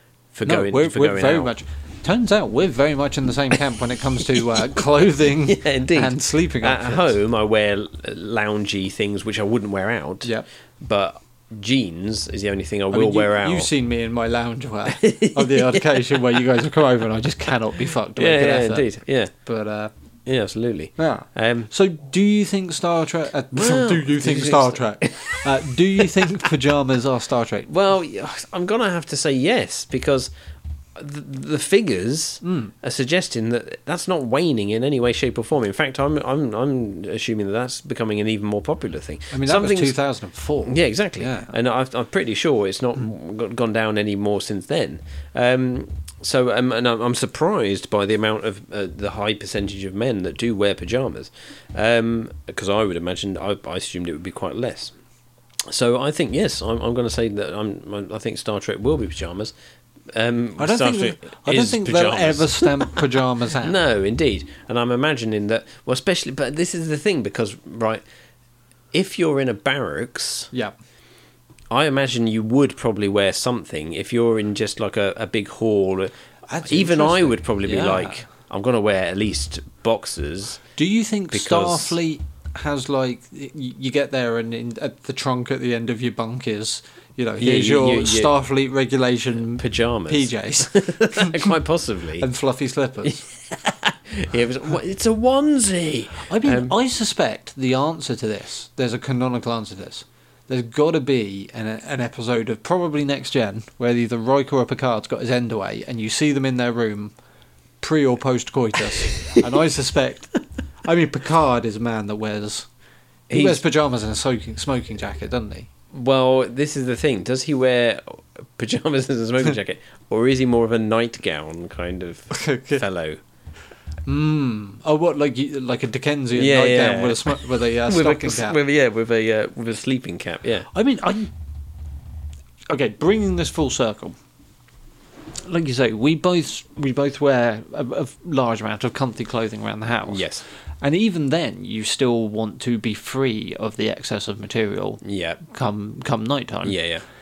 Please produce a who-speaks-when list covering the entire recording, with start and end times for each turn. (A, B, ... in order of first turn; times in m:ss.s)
0:00.3-0:01.5 A
0:00.4-0:07.2 B
0:05.4-0:13.7 A
0:12.9-0:19.9 B
0:14.9-0:16.2 A
0:18.2-0:19.3 A
0:20.2-0:21.7 A
0:21.0-0:27.7 B
0:23.5-0:26.2 A
0:27.7-0:30.3 A
0:30.9-0:40.0 A
0:32.4-0:32.7 B
0:39.3-0:41.5 B
0:40.6-0:54.9 A
0:55.7-0:59.5 A
1:00.1-1:03.0 A
1:00.6-1:03.8 B
1:03.6-1:08.0 A
1:08.9-1:10.5 A
1:11.7-1:16.1 A
1:16.5-1:18.2 B
1:16.6-1:20.6 A
1:20.8-1:31.5 B
1:21.3-1:22.0 A
1:27.4-1:28.3 A
1:29.6-1:32.3 A
1:32.2-1:33.2 B
1:33.0-1:36.7 A
1:36.2-1:47.1 B
1:47.8-1:50.3 B
1:50.8-1:52.7 B
1:53.3-1:53.6 A
1:53.3-1:55.7 B
1:55.9-2:03.2 A
2:02.3-2:02.8 B
2:04.0-2:08.6 B
2:06.3-2:10.7 A
2:10.7-2:11.3 B
2:12.7-2:14.2 B
2:15.4-2:20.2 B
2:20.1-2:20.4 A
2:20.8-2:26.8 B
2:25.0-2:25.4 A
2:26.6-2:27.0 A